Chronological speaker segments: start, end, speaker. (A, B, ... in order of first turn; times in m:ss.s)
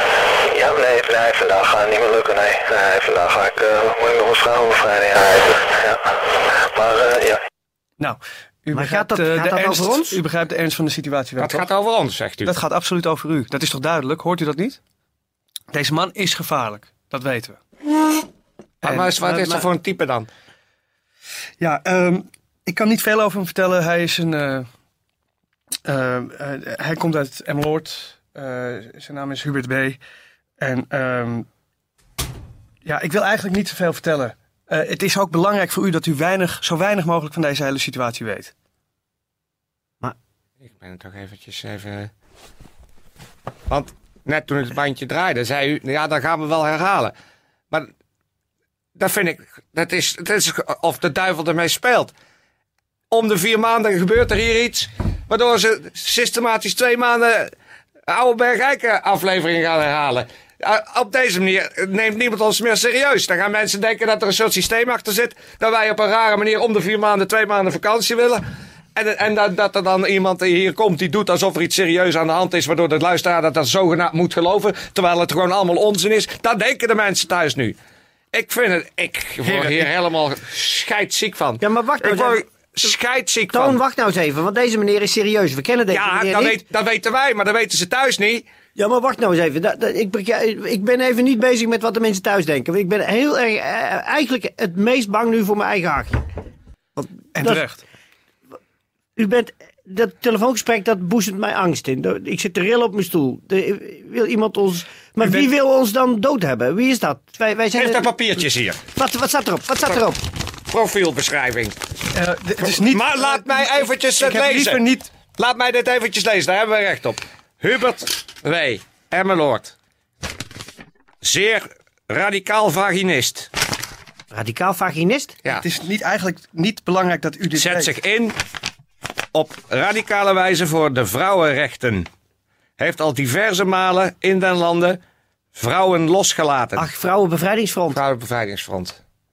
0:00.5-0:06.0 A
0:06.5-0:07.4 A
0:08.0-0:11.8 B
0:08.7-0:10.2 C
0:11.4-0:12.5 D
0:12.4-0:14.8 B
0:15.7-0:17.6 B
0:18.8-0:19.6 B
0:19.0-0:20.3 D
0:19.0-0:19.6 C
0:21.6-0:24.6 B
0:25.8-0:30.0 B
0:30.6-0:31.5 B
0:32.8-0:38.5 B
0:40.6-0:42.1 D
0:43.7-0:47.1 D
0:49.0-0:52.1 D
0:53.1-0:57.5 D
0:58.1-1:08.4 D
1:08.9-1:17.8 D
1:18.3-1:23.8 D
1:19.4-1:19.8 B
1:21.6-1:22.4 C
1:23.5-1:26.6 C
1:25.9-1:28.5 D
1:28.8-1:36.2 C
1:37.3-1:37.8 B
1:39.2-1:48.1 C
1:45.2-1:45.5 B
1:47.8-1:48.8 D
1:49.0-1:50.2 C
1:50.7-1:51.7 D
1:52.1-1:55.2 B
1:52.9-1:54.6 D
1:55.3-1:59.8 D
2:01.2-2:03.5 D
2:04.3-2:05.4 C
2:05.5-2:08.1 B
2:07.8-2:08.3 D
2:09.3-2:12.0 D
2:12.8-2:15.0 D
2:15.5-2:16.8 D
2:16.8-2:18.0 C
2:18.0-2:18.9 D